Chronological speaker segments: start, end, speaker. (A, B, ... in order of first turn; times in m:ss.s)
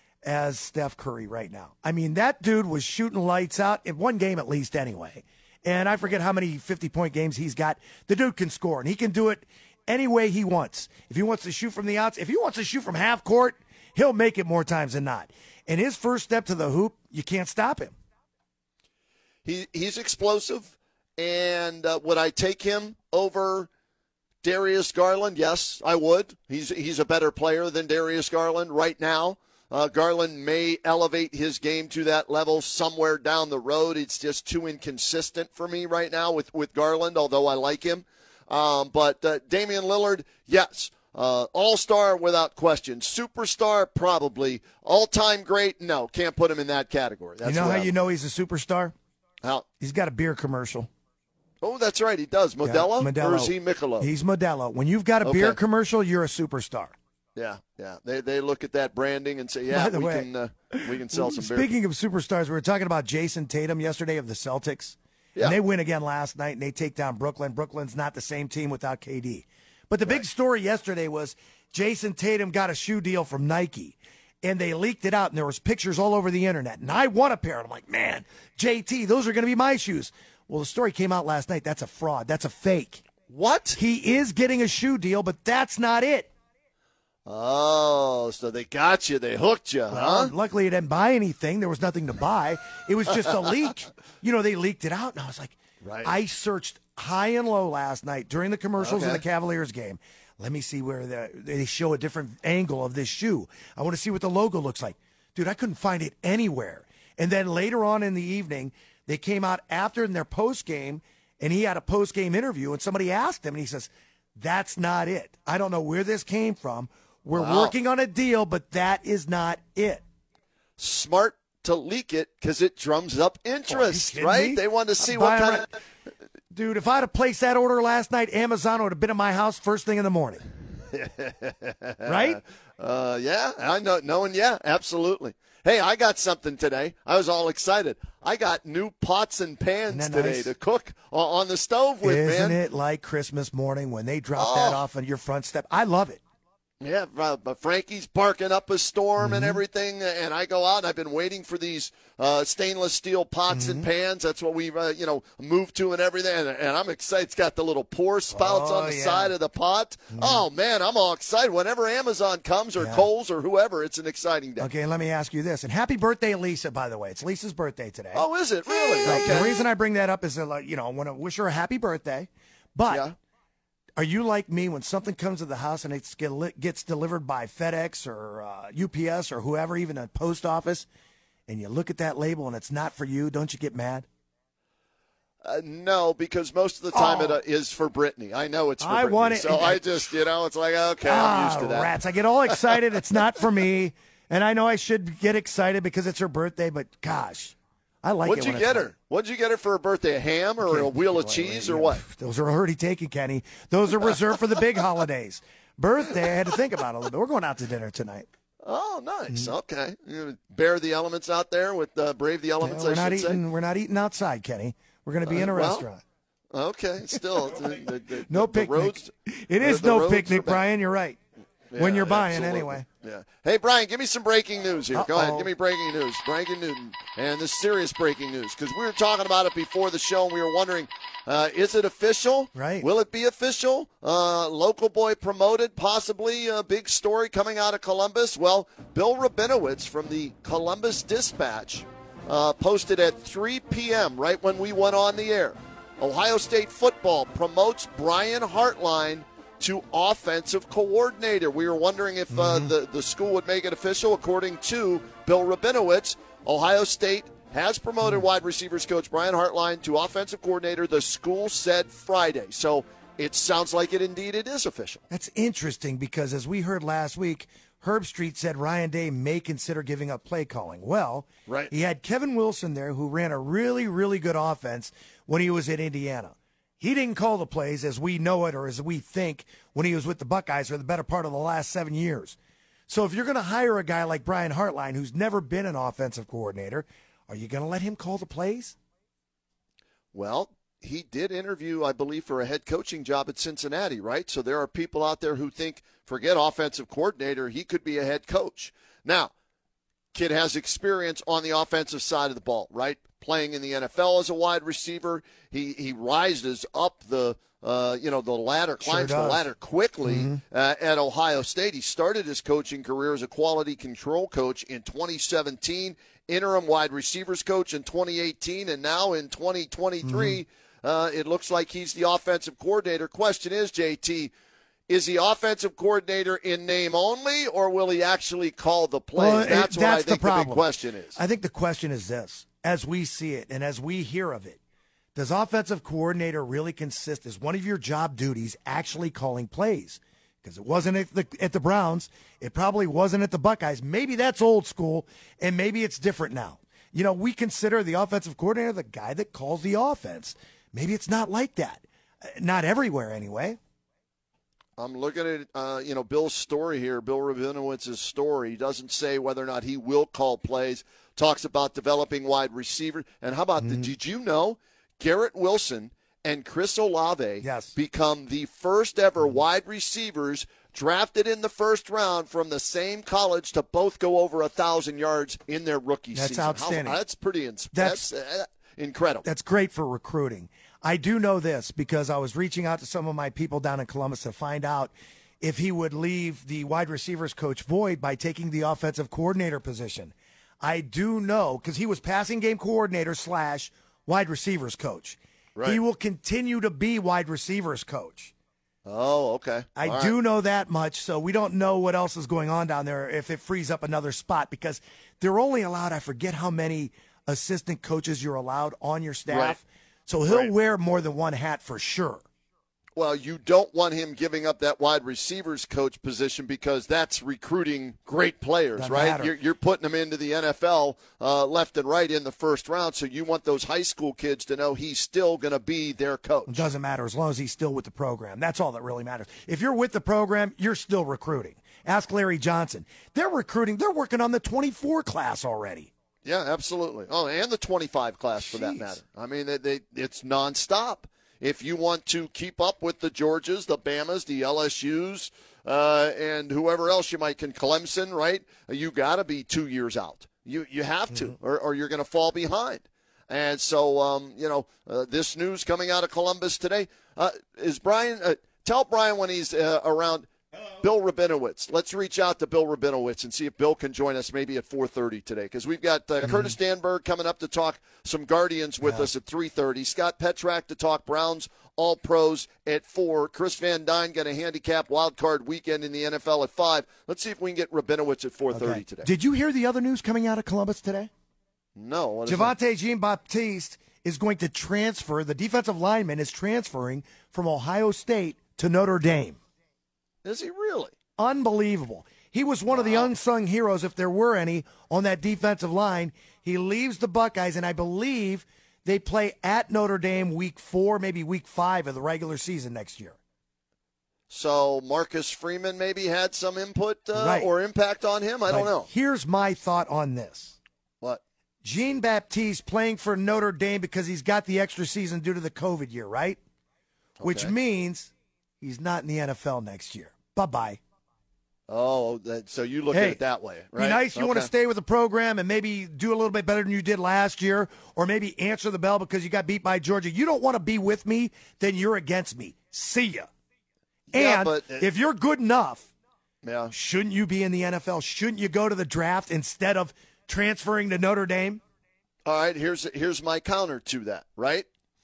0:00.2-0:18.0 A
0:19.4-0:23.7 B
0:24.4-0:47.9 B
0:47.4-0:48.9 A
0:49.8-0:50.9 A
0:51.6-0:54.1 B
0:52.6-0:56.9 A
0:55.2-0:55.6 B
0:57.4-1:01.7 B
0:59.7-1:23.0 A
1:23.3-1:23.8 B
1:23.8-1:26.3 A
1:27.3-1:30.3 B
1:29.9-2:00.0 A
1:35.8-1:36.1 B
1:38.8-1:39.2 B
1:57.3-1:57.8 B
2:00.8-2:05.7 B
2:03.7-2:05.7 A
2:06.5-2:10.4 A
2:10.9-2:22.6 B
2:12.0-2:12.4 A
2:19.9-2:20.5 A
2:22.0-2:26.2 A
2:24.4-2:24.8 B
2:26.8-2:44.7 B
2:29.2-2:29.6 A
2:33.5-2:33.9 A
2:38.3-2:39.4 A
2:40.1-2:40.4 A
2:42.8-2:43.1 A
2:44.6-2:48.2 A
2:48.1-2:49.6 B
2:48.9-2:53.1 A
2:52.9-2:53.1 B
2:54.0-3:00.9 A
3:01.5-3:04.1 A
3:05.4-3:11.9 B
3:06.9-3:07.4 A
3:08.8-3:10.2 A
3:11.0-3:18.9 A
3:12.5-3:12.7 B
3:18.2-3:22.0 B
3:20.6-3:28.3 A
3:28.6-3:33.4 B
3:29.3-3:29.5 A
3:32.6-3:36.0 A
3:35.2-3:35.9 B
3:36.5-3:40.6 B
3:37.1-3:41.2 A
3:41.7-4:25.0 B
3:41.8-3:42.9 A
3:44.9-3:45.5 A
3:52.6-3:52.9 A
4:12.3-4:12.7 A
4:25.1-4:42.4 A
4:31.5-4:31.7 B
4:42.9-4:48.8 A
4:50.1-4:59.3 B
5:00.1-5:24.3 B
5:08.8-5:09.5 A
5:10.0-5:10.4 A
5:20.0-5:20.4 A
5:24.9-5:31.2 B
5:29.2-5:34.6 A
5:35.2-5:53.6 A
5:54.8-6:19.3 B
6:03.6-6:03.9 A
6:07.4-6:07.8 A
6:16.1-6:17.0 A
6:17.7-6:18.1 A
6:19.2-6:38.3 A
6:38.9-6:40.2 B
6:39.8-6:52.2 A
6:49.3-6:49.6 B
6:50.3-6:50.6 B
6:53.0-7:06.7 B
6:58.8-6:59.3 A
7:06.5-7:15.9 A
7:16.2-7:59.1 B
7:18.4-7:19.0 A
7:46.2-7:46.6 A
7:48.8-7:49.1 A
7:58.5-8:01.1 A
8:01.8-8:02.6 B
8:02.3-8:09.4 A
8:10.2-8:10.9 B
8:11.2-8:23.2 A
8:12.7-8:13.1 B
8:24.3-8:28.9 B
8:27.1-8:27.5 A
8:28.5-8:30.6 A
8:31.6-8:36.4 A
8:37.2-8:37.5 B
8:37.2-8:40.8 A
8:41.7-8:44.5 B
8:42.9-8:43.2 A
8:43.7-8:53.3 A
8:54.1-8:54.9 B
8:54.1-8:55.9 A
8:56.4-8:56.7 B
8:56.7-9:01.6 A
9:02.2-9:04.7 B